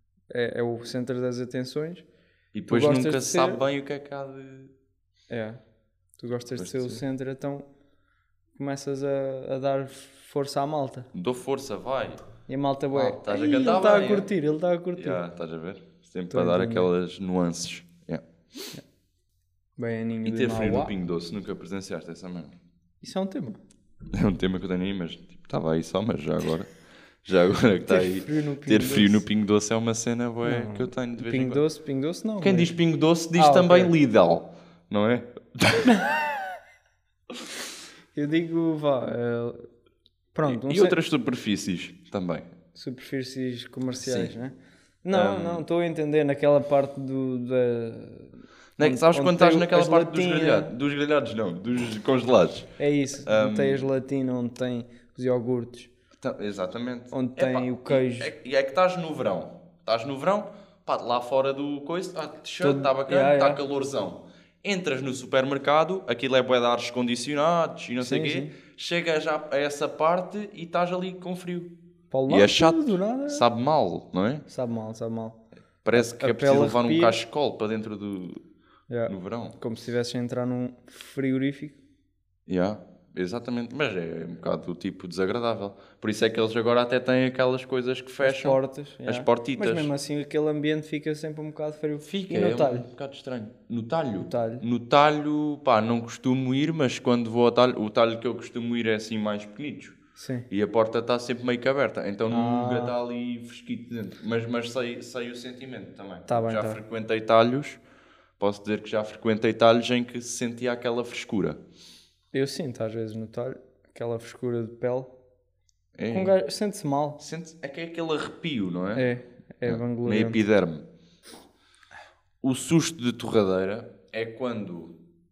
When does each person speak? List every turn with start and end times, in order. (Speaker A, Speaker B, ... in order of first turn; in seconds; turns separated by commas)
Speaker A: 0.3-2.0, Speaker B: 2.5-4.7, Speaker A: 2.7-3.6, Speaker A: 5.3-5.6, Speaker A: 6.2-7.7, Speaker B: 6.5-7.0, Speaker A: 8.5-11.1, Speaker B: 11.1-12.2, Speaker A: 12.5-15.2, Speaker B: 12.9-14.3, Speaker B: 14.9-18.2, Speaker A: 16.3-16.9, Speaker A: 19.8-20.9, Speaker B: 20.2-22.6, Speaker A: 23.0-23.6, Speaker B: 24.1-26.7, Speaker B: 27.2-31.6, Speaker A: 27.9-29.2, Speaker A: 30.4-32.7, Speaker B: 32.4-36.0, Speaker A: 33.3-33.9, Speaker A: 38.1-39.6, Speaker A: 40.3-41.0, Speaker B: 40.4-42.5, Speaker A: 42.7-50.7, Speaker B: 44.0-44.3, Speaker B: 45.1-45.6, Speaker B: 48.8-52.7, Speaker A: 52.8-55.9, Speaker B: 53.2-53.9, Speaker B: 56.2-71.7, Speaker A: 57.1-58.3, Speaker A: 62.6-63.6, Speaker A: 68.0-68.5, Speaker A: 72.1-73.4, Speaker B: 72.3-74.4, Speaker A: 74.5-75.4, Speaker B: 75.8-78.4, Speaker A: 75.9-77.2, Speaker A: 78.9-81.8, Speaker B: 79.1-79.5, Speaker B: 82.5-89.9, Speaker A: 88.2-92.9, Speaker B: 92.0-100.0, Speaker A: 94.2-94.6, Speaker A: 100.2-100.5, Speaker B: 100.5-107.8, Speaker A: 102.3-103.0, Speaker A: 106.3-106.8, Speaker B: 108.4-111.6, Speaker A: 112.3-115.1, Speaker B: 115.9-116.3, Speaker A: 116.1-117.2, Speaker B: 117.2-119.1, Speaker A: 118.9-120.4, Speaker B: 119.6-120.8, Speaker B: 122.4-124.9